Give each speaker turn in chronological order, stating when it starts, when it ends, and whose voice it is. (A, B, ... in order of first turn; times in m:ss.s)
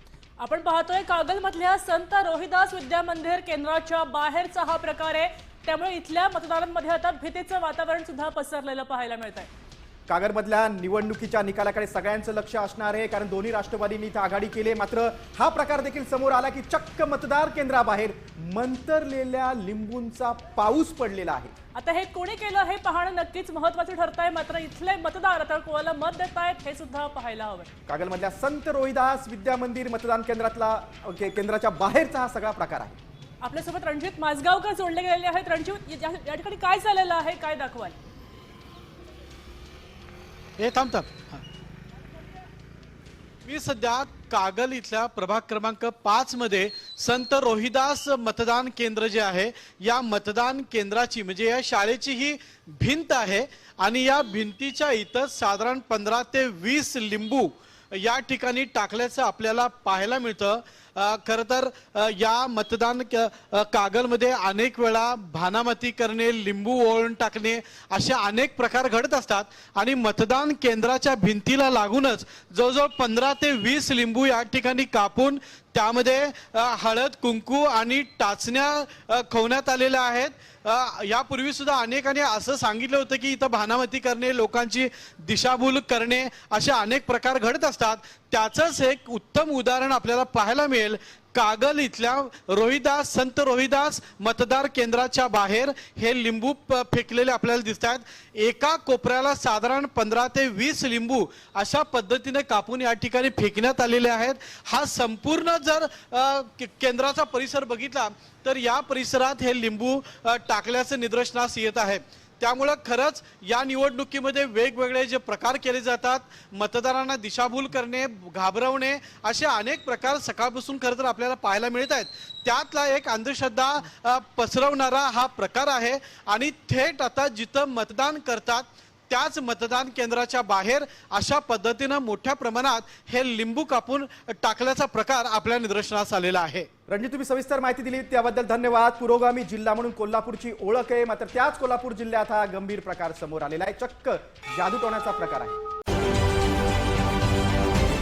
0:00.4-0:09.5 A
0:10.1-0:21.5 B
0:21.8-0:27.7 A
0:27.9-0:33.0 B
0:33.4-0:38.0 A
0:40.6-0:41.4 C
0:43.4-2:16.7 C
2:16.9-2:25.6 B